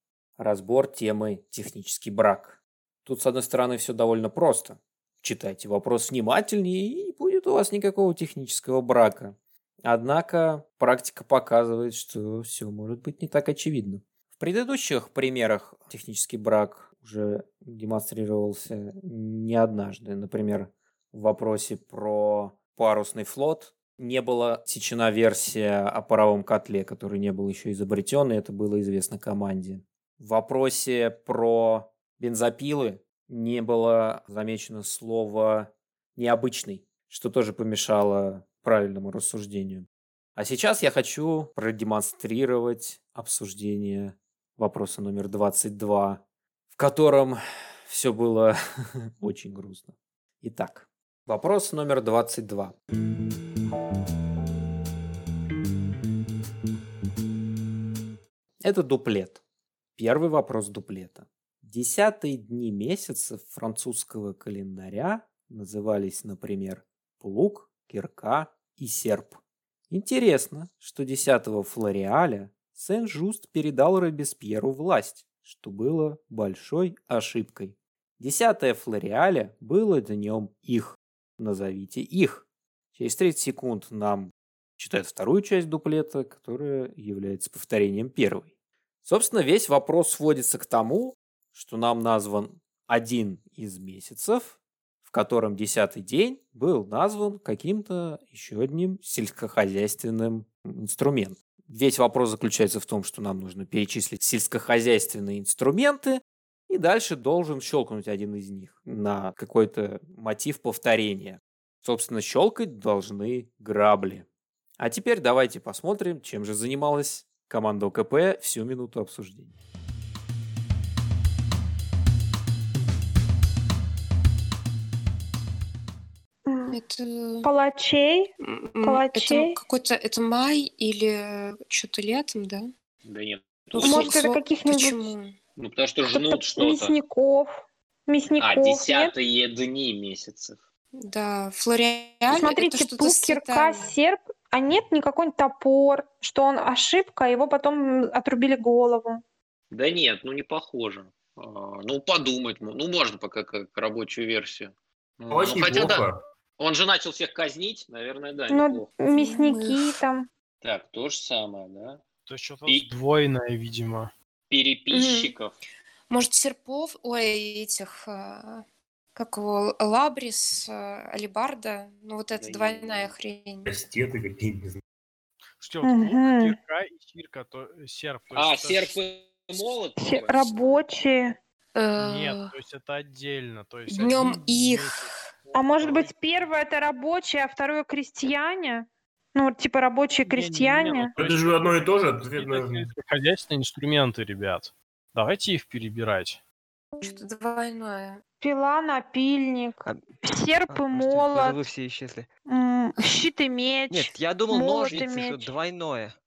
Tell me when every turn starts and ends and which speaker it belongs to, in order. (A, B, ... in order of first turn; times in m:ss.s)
0:00.4-0:46.2 A
0:46.7-0:52.8 A
0:58.6-0:59.4 A
1:00.0-1:09.4 A
1:09.9-1:28.5 A
1:29.0-1:54.3 A
1:54.8-1:59.6 A
2:06.5-2:06.8 B
2:06.7-2:07.5 C
2:07.4-2:09.6 B
2:08.5-2:12.7 C
2:13.0-2:14.2 D
2:13.7-2:15.4 C
2:13.8-2:15.1 B
2:15.6-2:17.0 D
2:16.1-2:19.1 B
2:18.4-2:20.6 D
2:21.0-2:23.9 C
2:22.3-2:29.2 B
2:29.7-2:36.1 D
2:35.3-2:36.2 E
2:36.6-2:38.9 D
2:38.5-2:40.3 B
2:39.1-2:40.0 C
2:40.6-2:42.0 D
2:42.3-2:44.1 F
2:44.5-2:45.5 D
2:44.9-2:45.4 C
2:46.1-2:48.6 C
2:49.2-2:53.8 C
2:52.3-2:53.1 D
2:53.7-2:54.8 E
2:55.6-2:59.0 F
2:55.8-2:56.6 B
2:58.3-3:00.8 D
3:00.0-3:01.4 B
3:01.8-3:02.5 C
3:02.0-3:06.5 F
3:03.9-3:05.1 C
3:05.5-3:11.1 B
3:10.2-3:16.4 F
3:11.2-3:12.9 E
3:17.0-3:18.2 C
3:18.4-3:21.6 B
3:19.8-3:22.3 G
3:22.5-3:25.5 B
3:23.9-3:26.2 G